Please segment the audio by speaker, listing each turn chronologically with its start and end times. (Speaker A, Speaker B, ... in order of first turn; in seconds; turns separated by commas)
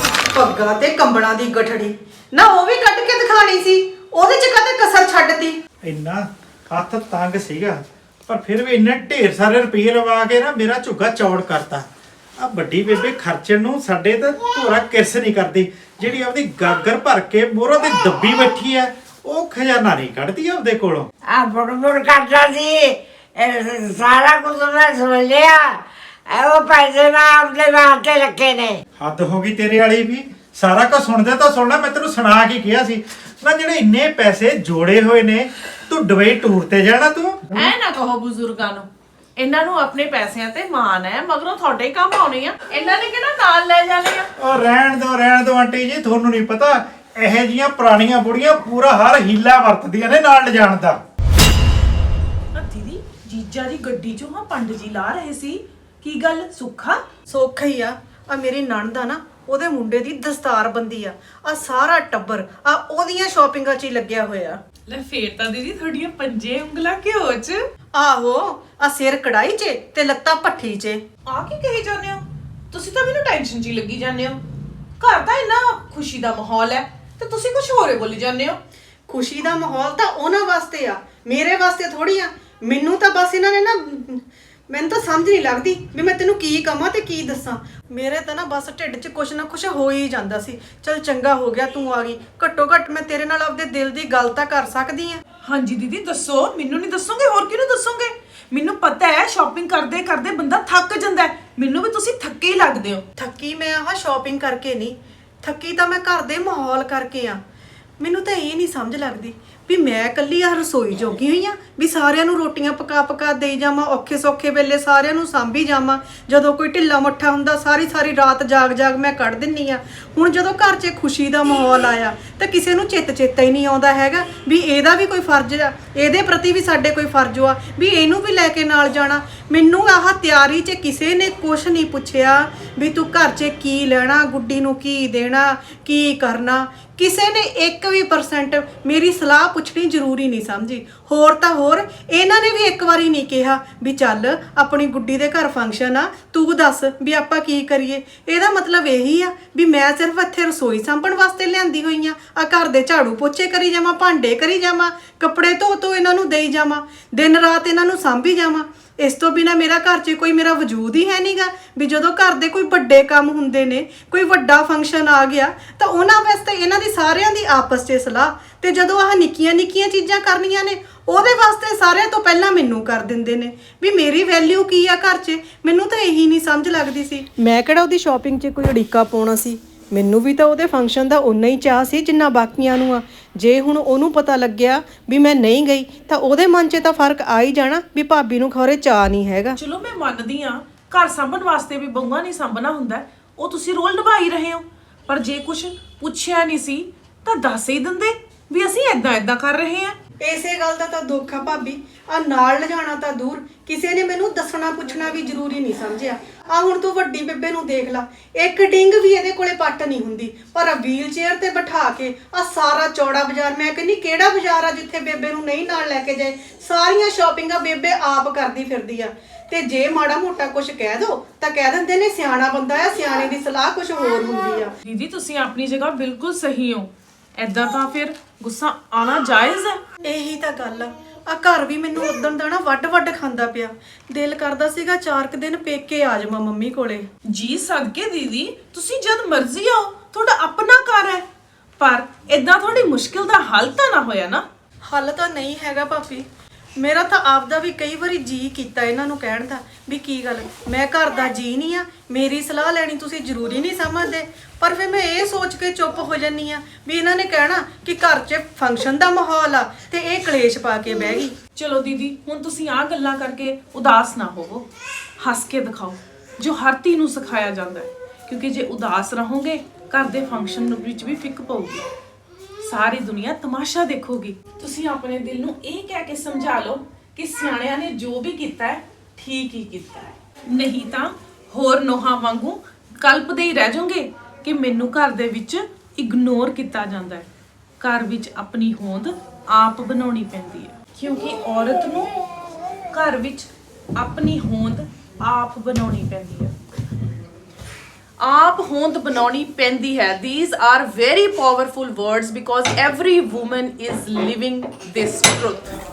Speaker A: 0.3-5.6, Speaker B: 5.8-11.9, Speaker B: 12.4-21.1, Speaker C: 21.3-22.9, Speaker C: 23.4-25.7, Speaker C: 26.3-28.8, Speaker B: 29.0-37.7, Speaker D: 37.5-44.3, Speaker B: 44.4-51.0, Speaker E: 52.5-57.0, Speaker A: 57.3-64.6, Speaker E: 64.9-67.6, Speaker A: 67.9-71.0, Speaker E: 71.3-74.4, Speaker E: 75.0-78.6, Speaker A: 79.1-95.2, Speaker E: 95.4-103.0, Speaker A: 103.2-107.4, Speaker A: 108.0-189.6, Speaker E: 189.6-200.0, Speaker A: 200.2-224.7, Speaker E: 224.8-229.8, Speaker A: 230.0-237.1, Speaker E: 237.3-241.2, Speaker E: 241.8-244.4, Speaker A: 244.9-246.3, Speaker A: 246.8-261.3, Speaker E: 261.6-264.7, Speaker E: 265.2-271.9, Speaker E: 272.7-287.3, Speaker E: 287.8-292.2, Speaker E: 292.9-296.5, Speaker E: 298.2-305.8